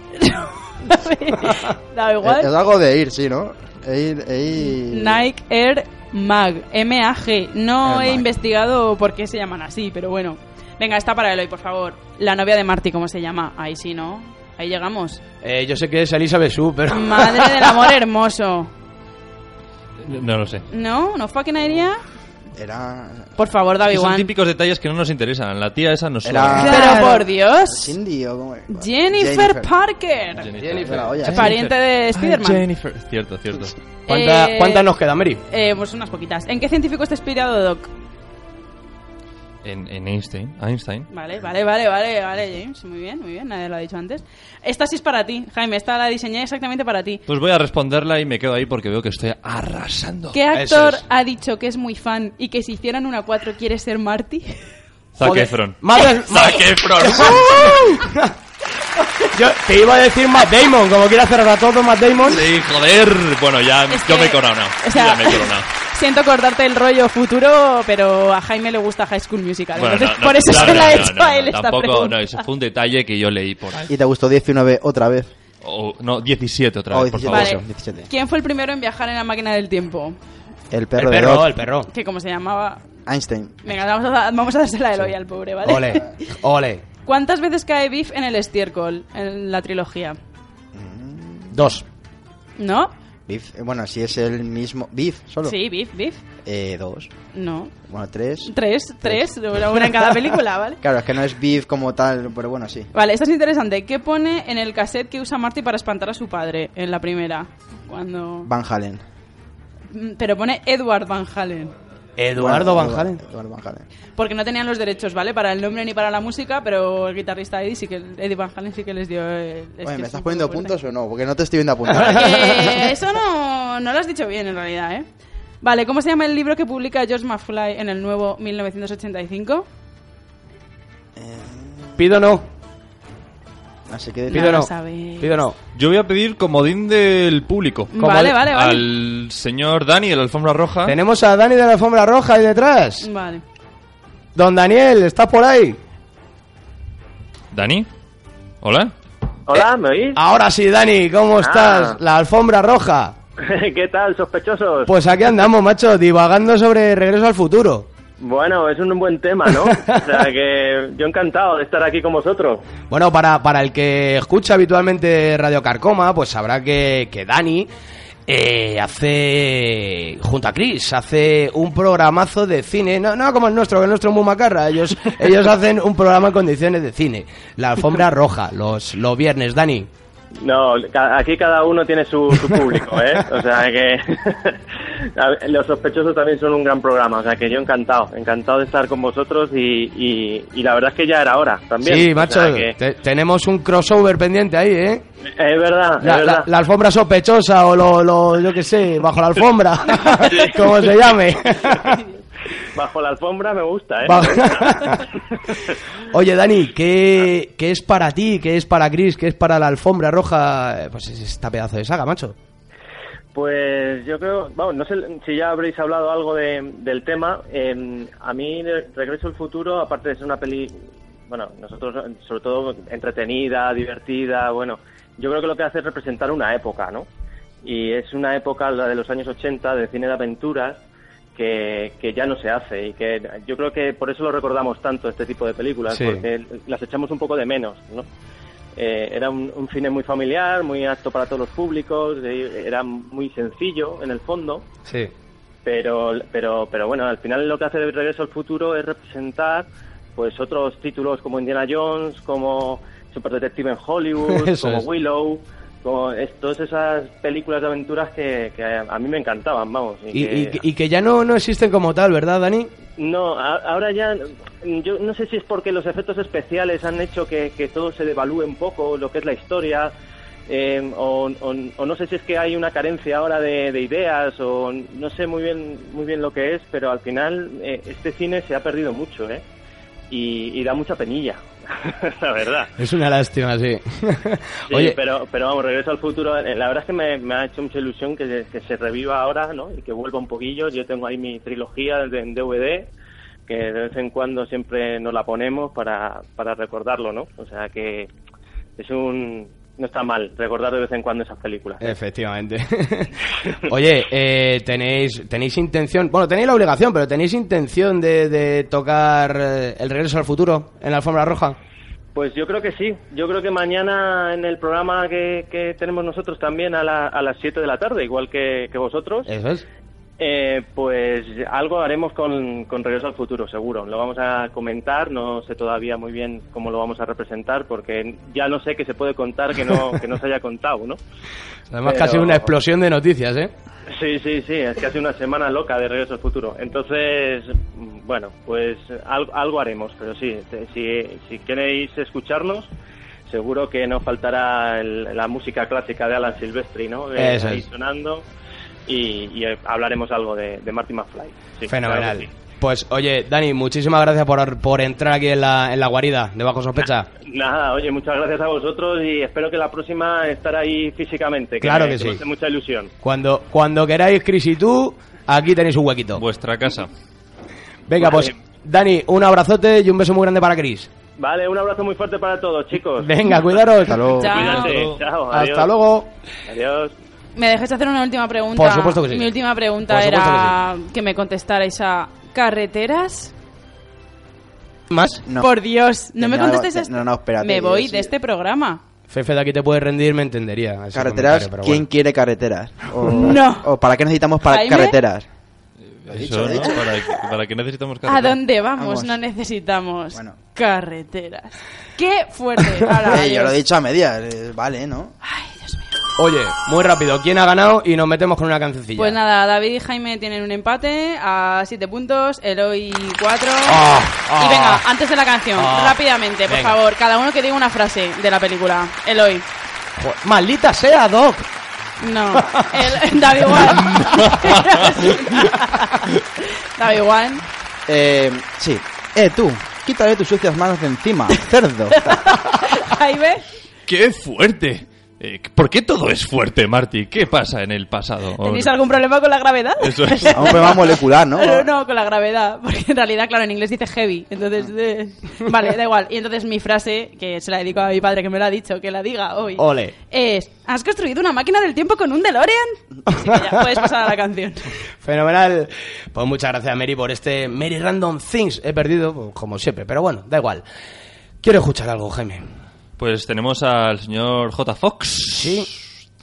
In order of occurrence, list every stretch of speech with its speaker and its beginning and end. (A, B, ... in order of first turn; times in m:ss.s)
0:00.2-0:02.5 A
0:02.2-0:05.2 B
0:04.6-0:15.2 A
0:07.8-0:08.3 B
0:15.4-0:17.9 C
0:16.9-0:18.7 A
0:20.0-0:20.6 D
0:20.7-0:22.0 A
0:22.5-0:23.3 B
0:23.4-0:24.3 A
0:23.9-0:27.0 D
0:26.2-0:29.7 B
0:26.6-0:28.0 A
0:28.7-0:30.5 A
0:30.4-0:33.7 D
0:30.6-0:31.1 C
0:30.8-0:31.5 B
0:31.3-0:32.6 A
0:34.1-0:35.4 C
0:34.1-0:34.9 A
0:35.5-0:37.9 A
0:39.6-0:41.1 D
0:41.1-0:47.2 A
0:47.3-0:50.4 D
0:50.3-0:54.6 A
0:50.5-0:51.0 C
0:55.2-0:57.9 D
0:55.2-0:58.3 C
0:59.3-1:02.4 C
1:02.2-1:05.7 D
1:03.9-1:12.4 A
1:09.7-1:13.9 D
1:13.9-1:15.3 B
1:15.6-1:17.6 D
1:16.9-1:18.1 B
1:17.3-1:20.2 A
1:20.7-1:21.6 B
1:21.0-1:21.9 C
1:21.9-1:22.8 A
1:23.0-1:23.7 B
1:23.6-1:26.1 A
1:25.6-1:26.8 C
1:27.0-1:30.2 A
1:30.7-1:31.6 B
1:31.5-1:31.8 C
1:32.6-1:32.9 A
1:33.3-1:35.6 B
1:35.4-1:36.2 A
1:36.4-1:37.1 B
1:37.3-1:37.7 A
1:37.9-1:39.3 B
1:38.4-1:40.8 A
1:40.8-1:42.9 B
1:42.9-1:48.5 A
1:48.4-1:49.0 B
1:49.9-1:51.7 A
1:52.2-1:53.2 C
1:52.4-1:53.8 B
1:54.2-2:00.7 A
1:59.8-2:02.8 B
2:01.9-2:02.7 C
2:02.0-2:05.0 A
2:05.6-2:09.7 A
2:11.2-2:12.0 B
2:12.0-2:12.4 C
2:13.9-2:14.6 B
2:14.3-2:15.4 A
2:14.3-2:15.5 C
2:15.7-2:17.9 D
2:17.9-2:18.8 A
2:18.0-2:18.4 C
2:18.4-2:21.0 D
2:20.8-2:23.1 C
2:23.0-2:23.4 A
2:24.3-2:25.8 C
2:27.5-2:27.9 D
2:28.6-2:28.9 D
2:29.5-2:30.2 E
2:30.2-2:33.1 C
2:31.4-2:32.0 E
2:33.4-2:34.9 E
2:34.8-2:37.9 C
2:38.2-2:42.6 E
2:39.6-2:40.0 C
2:42.9-2:47.7 C
2:48.3-2:59.9 C
3:00.4-3:12.7 E
3:11.8-3:15.0 C
3:15.4-3:16.5 E
3:16.0-3:22.0 C
3:20.2-3:20.9 E
3:22.7-3:25.6 E
3:24.0-3:25.1 C
3:26.1-3:32.3 C
3:33.3-3:47.1 E
3:47.6-3:50.8 E
3:51.3-3:58.0 E
3:55.9-3:56.2 C
3:58.7-4:04.7 E
4:04.8-4:05.1 C
4:05.6-4:20.6 E
4:14.3-4:14.8 C
4:20.1-4:22.7 C
4:23.0-4:29.9 E
4:30.5-4:39.4 E
4:40.1-4:42.7 E
4:42.8-4:45.0 C
4:44.7-4:52.9 E
4:53.5-4:58.1 E
4:58.8-5:01.8 E
5:01.8-5:03.1 C
5:03.7-5:11.6 C
5:12.1-5:19.3 E
5:19.3-5:19.6 C
5:20.2-5:31.0 E
5:31.7-5:33.5 C
5:31.8-5:32.5 E
5:33.9-5:42.7 E
5:43.3-5:48.2 E
5:47.2-5:47.6 C
5:48.9-5:52.3 E
5:51.7-5:57.1 C
5:57.2-6:02.9 E
6:01.6-6:02.2 C
6:03.0-6:06.2 C
6:06.2-6:06.9 D
6:07.9-6:10.9 C
6:08.0-6:08.3 E
6:11.2-6:13.6 E
6:13.0-6:14.1 C
6:13.8-6:14.4 B
6:14.2-6:14.7 A
6:14.3-6:15.0 D
6:14.3-6:15.7 E
6:15.3-6:16.1 C
6:16.5-6:16.9 E
6:17.4-6:23.3 A
6:18.5-6:19.3 C
6:19.8-6:20.6 C
6:24.9-6:25.2 C
6:25.3-6:25.5 B
6:25.4-6:28.8 A
6:26.1-6:28.1 B
6:29.1-6:31.8 C
6:30.9-6:35.3 B
6:33.1-6:33.7 A
6:34.4-6:35.0 A
6:35.9-6:38.4 D
6:36.1-6:36.8 B
6:36.5-6:36.8 A
6:38.0-6:43.6 A
6:38.8-6:39.2 B
6:43.0-6:45.1 B
6:45.2-6:45.9 A
6:46.2-6:49.2 C
6:49.0-6:53.8 A
6:53.7-6:54.8 C
6:54.4-6:59.4 A
6:55.6-6:56.8 C
7:00.0-7:01.5 C
7:02.0-7:07.4 A
7:02.4-7:03.0 C
7:03.9-7:04.7 D
7:07.9-7:12.1 B
7:11.9-7:13.4 A
7:13.9-7:18.8 D
7:18.4-7:34.7 A
7:19.8-7:20.6 D
7:20.3-7:21.7 B
7:29.6-7:29.9 C
7:35.0-7:40.6 C
7:41.4-7:42.4 C
7:43.0-7:45.8 D
7:45.3-7:45.7 C